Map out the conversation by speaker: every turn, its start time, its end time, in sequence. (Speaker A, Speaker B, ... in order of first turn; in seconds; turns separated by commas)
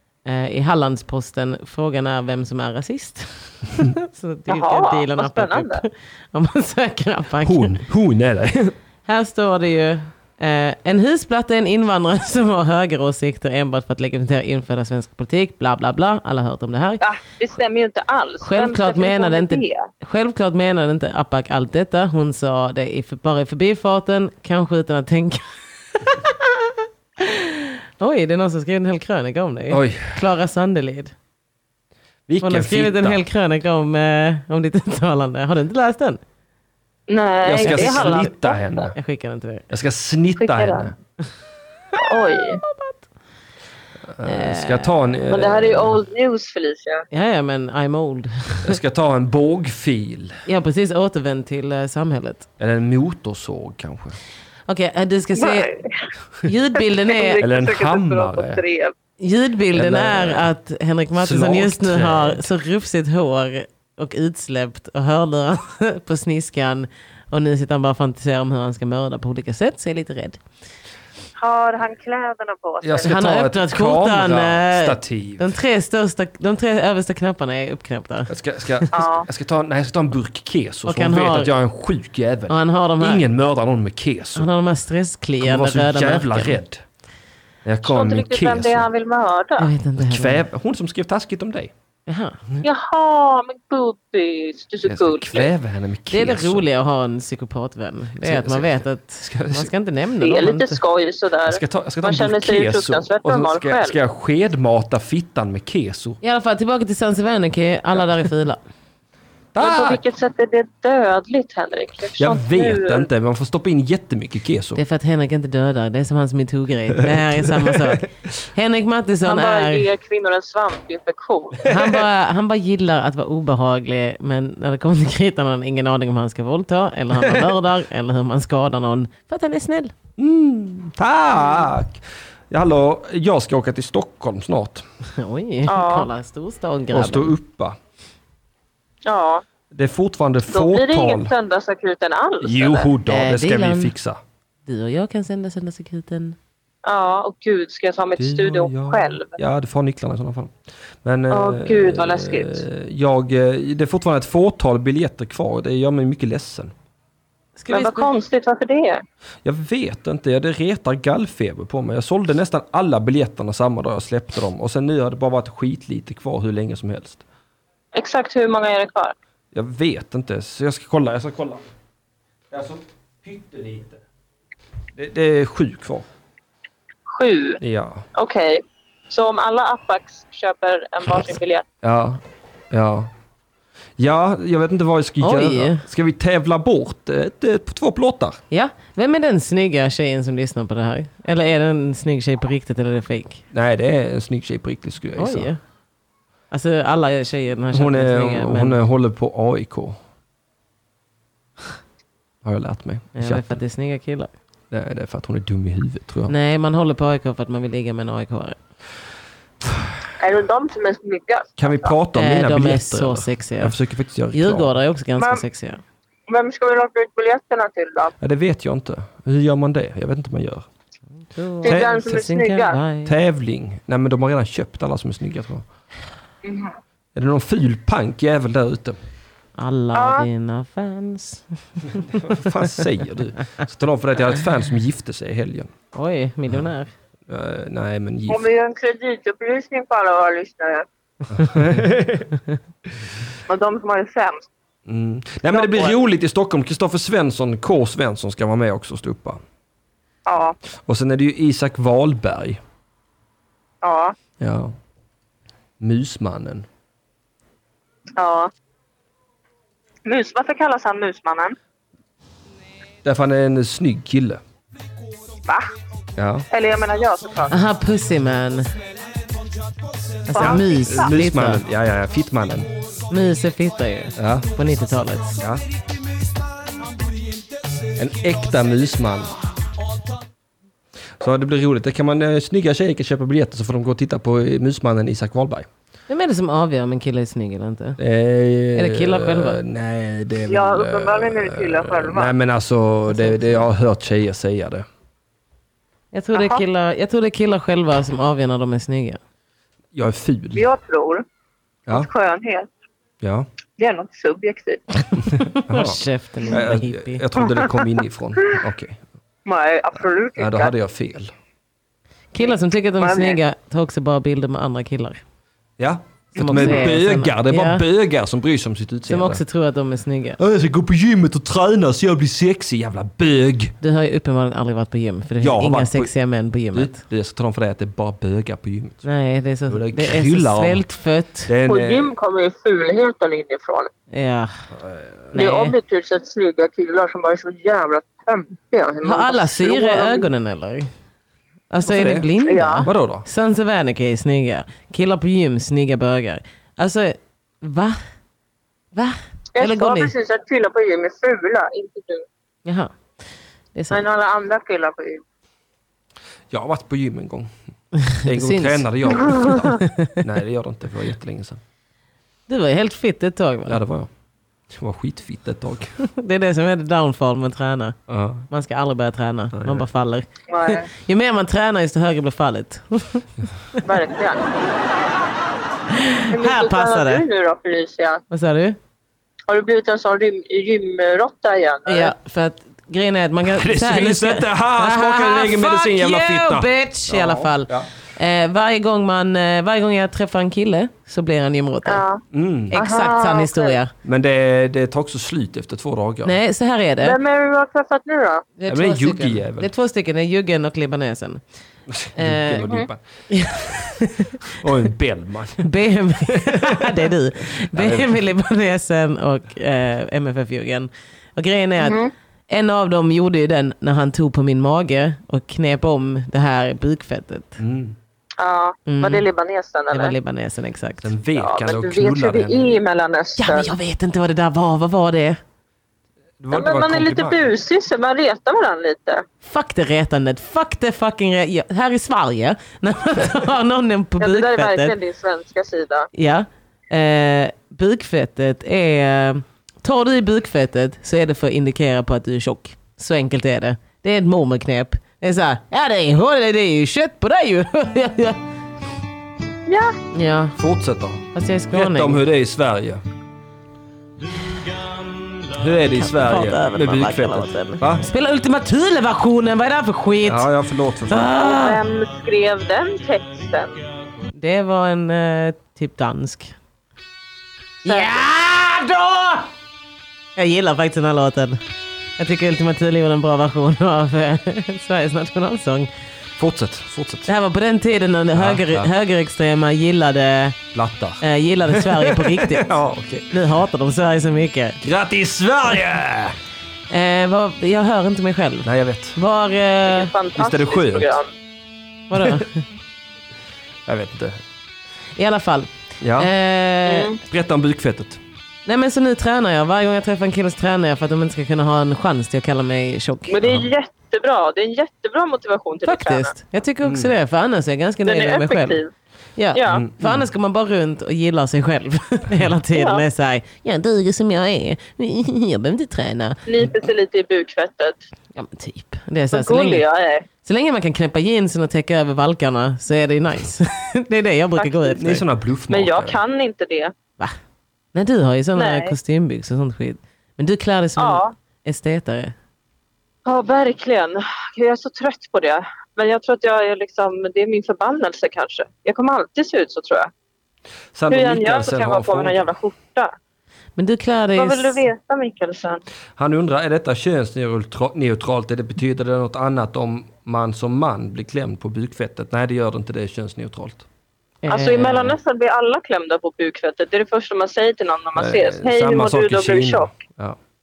Speaker A: 0.2-7.8, Speaker B: 4.5-5.8, Speaker C: 7.4-8.7, Speaker A: 9.1-17.0, Speaker B: 17.0-19.9, Speaker A: 18.4-31.1, Speaker C: 29.7-30.2, Speaker C: 32.3-33.2, Speaker A: 32.4-36.2, Speaker B: 37.1-38.7, Speaker C: 37.4-39.0, Speaker A: 37.6-38.3, Speaker A: 38.9-39.7, Speaker C: 39.7-40.9, Speaker B: 40.4-40.9, Speaker B: 42.0-42.6, Speaker A: 42.3-43.0, Speaker C: 44.1-46.0, Speaker A: 44.2-45.0, Speaker B: 45.3-47.0, Speaker A: 47.1-48.8, Speaker C: 48.6-50.4, Speaker A: 50.5-52.5, Speaker C: 52.6-54.2, Speaker A: 54.7-55.7, Speaker B: 55.3-56.1, Speaker A: 56.4-57.4, Speaker B: 57.0-58.9, Speaker C: 57.4-58.6, Speaker A: 59.2-70.4, Speaker C: 59.7-60.5, Speaker C: 61.1-62.5, Speaker B: 71.4-73.2, Speaker C: 72.8-75.5, Speaker A: 73.0-78.8, Speaker C: 78.3-84.5, Speaker B: 78.9-79.3, Speaker A: 80.8-81.5, Speaker A: 82.5-83.2, Speaker A: 84.3-86.6, Speaker C: 85.4-86.8, Speaker C: 87.6-88.9, Speaker B: 87.8-89.7, Speaker A: 89.6-90.4, Speaker C: 90.0-91.7, Speaker A: 92.0-92.4, Speaker B: 92.6-95.5, Speaker C: 94.8-96.6, Speaker A: 96.1-100.8, Speaker C: 98.2-99.7, Speaker B: 100.2-104.0, Speaker C: 101.5-106.2, Speaker A: 106.2-108.6, Speaker C: 109.5-110.0, Speaker B: 109.6-113.1, Speaker C: 112.2-114.8, Speaker A: 114.8-119.9, Speaker C: 117.5-117.7, Speaker B: 119.2-121.7, Speaker A: 121.6-129.9, Speaker C: 130.2-134.8, Speaker A: 135.2-137.3, Speaker B: 135.7-136.1, Speaker C: 136.9-137.8, Speaker B: 139.0-139.4, Speaker C: 139.7-141.3, Speaker B: 140.5-142.9, Speaker C: 142.4-144.2, Speaker A: 143.0-143.9, Speaker A: 144.7-146.4, Speaker B: 146.8-149.3, Speaker C: 148.2-150.5, Speaker C: 151.0-156.7, Speaker B: 151.3-152.6, Speaker A: 157.6-158.1, Speaker B: 157.7-159.0, Speaker C: 159.4-167.2, Speaker B: 167.9-169.1, Speaker C: 169.5-171.6, Speaker C: 172.5-174.0, Speaker C: 174.9-176.1, Speaker B: 177.1-177.6, Speaker C: 177.6-178.0, Speaker B: 178.1-181.6, Speaker C: 181.8-182.2, Speaker C: 182.7-183.1, Speaker C: 184.0-188.4, Speaker A: 185.2-185.8, Speaker A: 188.5-193.4, Speaker C: 193.5-195.5, Speaker A: 195.2-195.6, Speaker A: 196.5-198.8, Speaker C: 197.7-200.0, Speaker C: 202.4-203.6, Speaker A: 203.2-204.3, Speaker C: 204.7-206.3, Speaker A: 206.3-208.6, Speaker B: 210.2-211.9, Speaker C: 211.6-214.7, Speaker A: 212.1-213.7, Speaker A: 214.3-215.8, Speaker B: 215.2-215.4, Speaker B: 216.3-218.1, Speaker C: 218.2-220.7, Speaker A: 221.3-223.1, Speaker B: 221.6-222.8, Speaker C: 221.6-221.9, Speaker C: 223.0-225.6, Speaker B: 226.4-226.8, Speaker C: 227.1-229.0, Speaker A: 229.6-232.5, Speaker B: 229.9-230.2, Speaker C: 231.9-235.7, Speaker A: 235.9-236.9, Speaker C: 237.3-238.4, Speaker B: 238.3-240.8, Speaker C: 241.3-242.3, Speaker B: 243.5-244.5, Speaker C: 244.9-249.4, Speaker B: 245.5-245.9, Speaker B: 250.2-250.6, Speaker C: 250.8-252.6, Speaker B: 253.8-254.2, Speaker C: 254.4-254.7, Speaker C: 255.8-256.6, Speaker B: 258.2-258.5, Speaker B: 260.1-261.6, Speaker C: 263.0-264.4, Speaker B: 265.4-265.7, Speaker C: 266.2-266.5, Speaker B: 266.5-267.6, Speaker A: 267.5-268.7, Speaker A: 270.2-271.6, Speaker B: 270.3-271.1, Speaker C: 270.4-272.7, Speaker A: 273.1-275.4, Speaker C: 274.1-274.5, Speaker C: 275.4-275.6, Speaker C: 277.9-279.3, Speaker C: 281.2-285.7, Speaker A: 286.1-288.0, Speaker C: 288.0-294.9, Speaker A: 288.7-289.6, Speaker B: 290.5-292.3, Speaker A: 293.1-293.7, Speaker A: 296.1-299.2, Speaker B: 296.3-296.6, Speaker C: 299.9-300.7, Speaker B: 300.5-301.2, Speaker B: 301.9-302.7, Speaker C: 303.2-303.5, Speaker B: 303.8-304.8, Speaker A: 305.3-307.2, Speaker C: 305.6-309.0, Speaker B: 309.4-310.7, Speaker C: 310.4-311.3, Speaker A: 312.3-315.2, Speaker B: 312.4-313.4, Speaker C: 315.8-319.4, Speaker A: 316.3-317.8, Speaker A: 319.1-320.4, Speaker C: 320.4-323.7, Speaker A: 323.8-327.0, Speaker C: 325.4-326.1, Speaker C: 326.7-329.0, Speaker A: 329.0-331.5, Speaker C: 329.7-330.8, Speaker C: 331.5-332.1, Speaker B: 331.7-333.9, Speaker A: 334.1-334.5, Speaker C: 334.8-335.3, Speaker A: 335.3-335.8, Speaker B: 335.3-340.3, Speaker A: 339.0-340.9, Speaker A: 341.7-348.0, Speaker C: 341.9-342.3, Speaker B: 342.4-342.9, Speaker C: 342.8-343.2, Speaker A: 348.9-350.1, Speaker B: 349.5-352.2, Speaker A: 352.6-352.9, Speaker A: 353.7-354.0, Speaker B: 353.9-355.2, Speaker C: 356.5-357.5, Speaker A: 358.0-360.1, Speaker C: 358.2-361.6, Speaker B: 359.3-359.5, Speaker A: 362.5-363.8, Speaker C: 363.7-364.1, Speaker C: 364.7-366.0, Speaker A: 366.0-368.0, Speaker C: 368.1-368.5, Speaker A: 368.5-373.9, Speaker C: 369.5-369.9, Speaker B: 370.5-370.9, Speaker B: 373.8-374.5, Speaker A: 375.9-377.2, Speaker B: 376.3-378.2, Speaker A: 378.3-378.8, Speaker B: 379.5-382.1, Speaker A: 381.9-392.0, Speaker C: 383.5-387.9, Speaker B: 391.8-392.2, Speaker C: 392.3-392.8, Speaker A: 392.7-393.9, Speaker B: 392.7-393.8, Speaker C: 394.0-396.3, Speaker A: 396.2-397.2, Speaker B: 397.0-398.4, Speaker A: 398.6-401.4, Speaker C: 398.7-399.7, Speaker C: 401.9-403.0, Speaker A: 402.1-402.6, Speaker B: 402.6-402.9, Speaker A: 403.3-404.5, Speaker C: 403.6-403.9, Speaker C: 404.5-405.7, Speaker A: 405.6-417.6, Speaker C: 406.3-407.0, Speaker C: 407.7-408.2, Speaker B: 411.8-412.1, Speaker C: 417.6-417.9, Speaker B: 418.4-420.1, Speaker A: 418.9-419.3, Speaker A: 419.9-421.1, Speaker C: 421.0-422.7, Speaker B: 421.3-423.7, Speaker A: 423.4-425.4, Speaker C: 426.4-427.5, Speaker B: 426.5-429.2, Speaker A: 429.4-434.9, Speaker B: 434.2-436.1, Speaker A: 436.1-448.4, Speaker B: 449.7-450.0, Speaker A: 450.1-450.6, Speaker C: 450.6-453.0, Speaker A: 451.3-452.2, Speaker C: 455.5-458.1, Speaker A: 455.9-460.5, Speaker C: 460.2-461.3, Speaker A: 461.1-461.8, Speaker B: 461.4-463.8, Speaker A: 464.3-466.5, Speaker A: 467.8-469.5, Speaker B: 467.8-468.2, Speaker A: 470.4-471.6, Speaker A: 472.2-475.9, Speaker C: 476.4-477.3, Speaker A: 477.3-480.6, Speaker C: 478.3-478.9, Speaker C: 480.7-483.3, Speaker A: 481.2-482.7, Speaker A: 483.3-484.8, Speaker C: 484.8-486.4, Speaker A: 486.9-490.1, Speaker C: 488.6-489.2, Speaker B: 489.9-491.3, Speaker C: 490.4-491.2, Speaker A: 492.1-492.6, Speaker C: 493.9-494.4, Speaker A: 495.1-497.2, Speaker C: 496.0-496.3, Speaker B: 496.9-497.2, Speaker C: 497.2-498.2, Speaker A: 498.6-503.5, Speaker B: 503.3-506.3, Speaker A: 505.8-508.8, Speaker C: 506.8-507.1, Speaker B: 508.1-508.9, Speaker A: 509.4-516.4, Speaker B: 509.5-509.8, Speaker C: 509.7-510.2, Speaker B: 512.7-513.0, Speaker B: 516.5-518.0, Speaker A: 518.3-519.8, Speaker B: 519.3-520.2, Speaker A: 520.4-525.2, Speaker B: 524.6-525.0, Speaker C: 525.0-526.2, Speaker B: 525.7-526.9, Speaker A: 527.9-532.3, Speaker B: 528.5-528.9, Speaker B: 531.0-531.3, Speaker B: 533.2-540.1, Speaker C: 540.9-542.5, Speaker B: 541.1-543.1, Speaker A: 543.8-544.9, Speaker B: 544.4-545.8, Speaker C: 546.2-553.9, Speaker A: 554.4-555.2, Speaker B: 554.5-559.9, Speaker C: 558.1-560.4